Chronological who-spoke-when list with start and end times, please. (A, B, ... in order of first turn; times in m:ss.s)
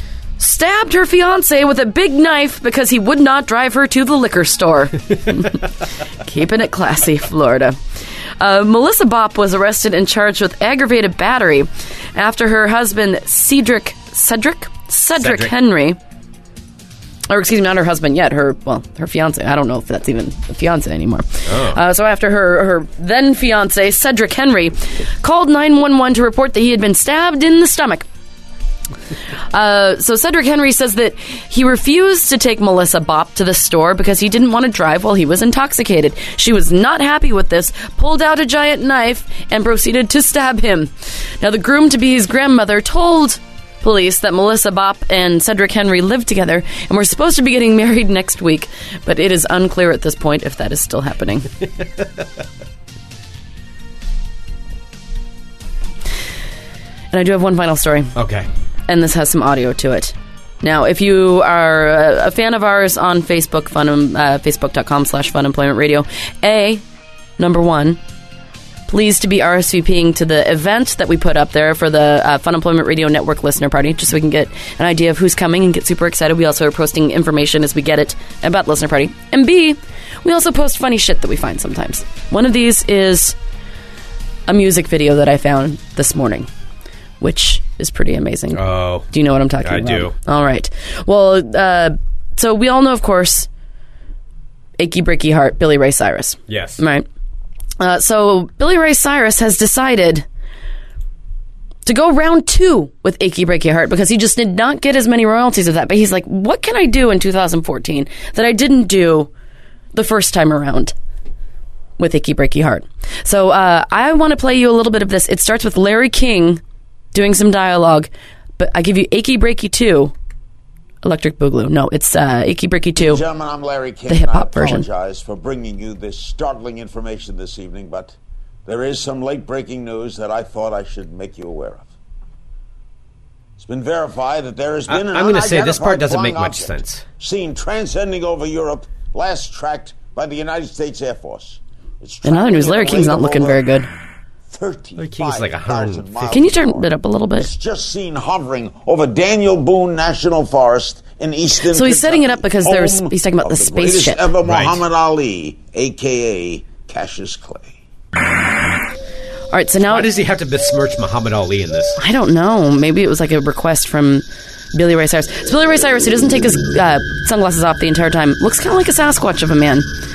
0:00.4-0:05.6 A
0:06.2-0:07.8 A
0:08.4-0:16.0 A
0:15.2-0:15.5 B
0:17.3-0:28.1 A
0:21.5-0:21.8 B
0:29.5-0:51.5 A
0:57.1-0:58.1 A
0:58.2-0:58.5 B
0:58.9-1:06.8 A
1:07.4-1:08.0 A
1:08.9-1:23.4 A
1:24.5-1:26.5 A
1:27.2-1:33.5 A
1:28.5-1:29.1 B
1:29.6-1:30.1 B
1:34.8-1:37.0 A
1:36.5-1:36.8 B
1:37.8-1:40.2 A
1:41.9-1:49.3 A
1:49.9-1:50.9 A
1:52.0-1:56.6 A
1:57.1-2:00.1 A
2:01.0-2:03.2 A
2:03.0-2:08.1 C
2:04.1-2:04.9 A
2:08.6-2:11.9 C
2:13.6-2:23.8 C
2:14.9-2:17.0 B
2:22.2-2:23.9 A
2:24.5-2:37.7 C
2:25.0-2:26.5 B
2:26.3-2:27.5 A
2:31.7-2:34.3 A
2:34.4-2:34.8 B
2:39.5-2:40.1 A
2:39.8-2:42.0 B
2:42.0-2:49.9 A